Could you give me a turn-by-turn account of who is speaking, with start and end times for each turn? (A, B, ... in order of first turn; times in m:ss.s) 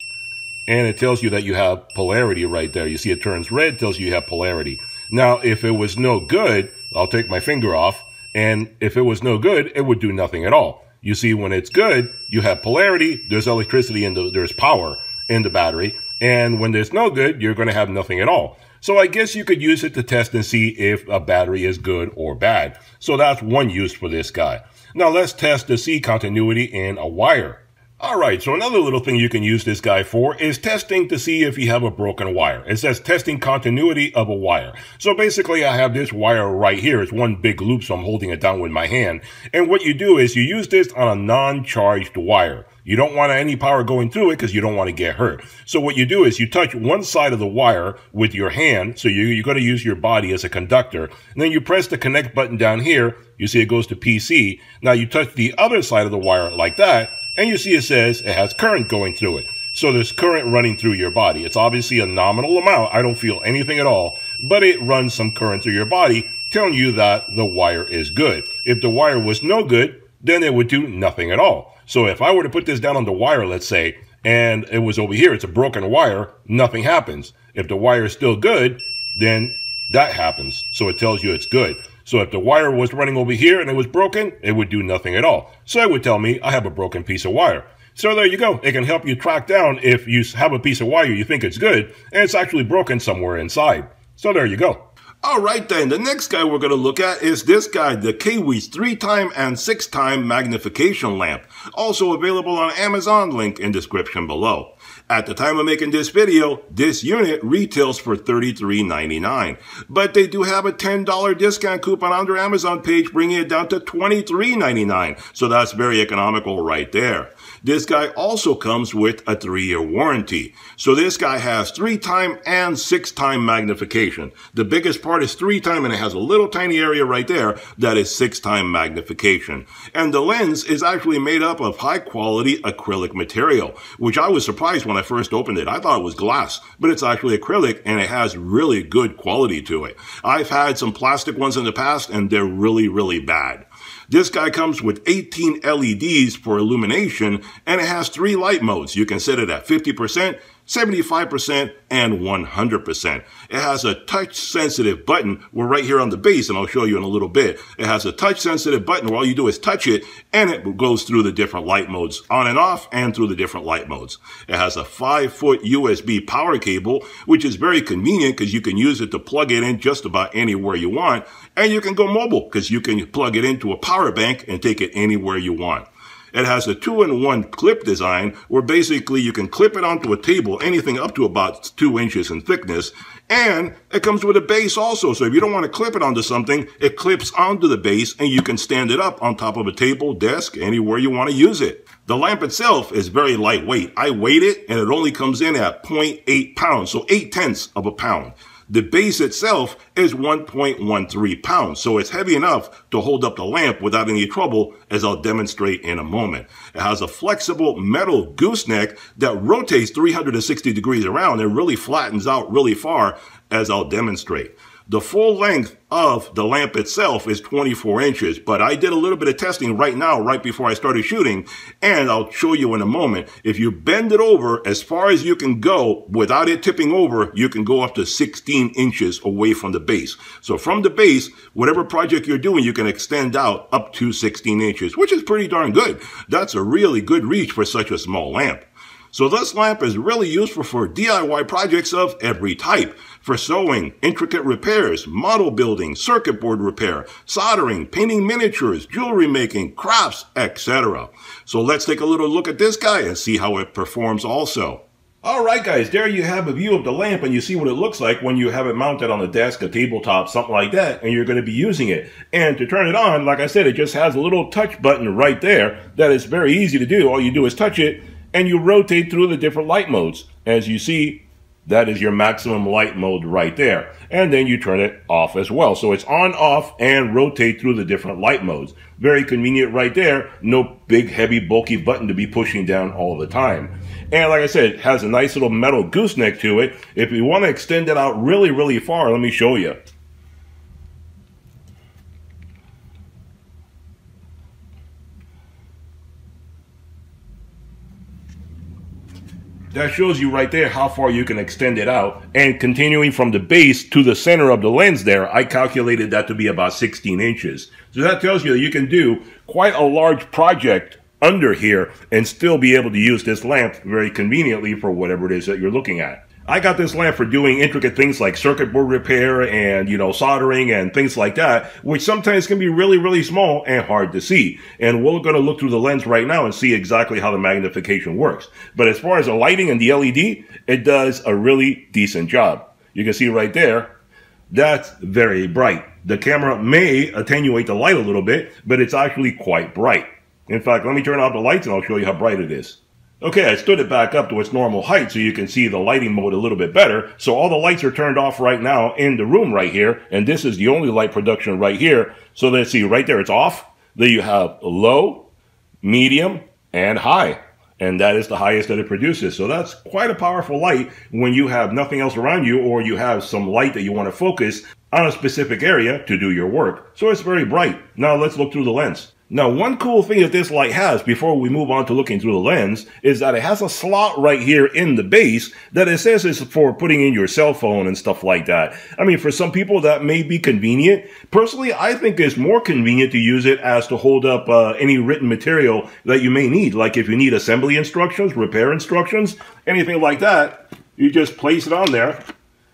0:00.7-4:49.8 A
4:59.7-5:33.9 A
5:34.5-5:55.3 A
5:55.8-6:32.2 A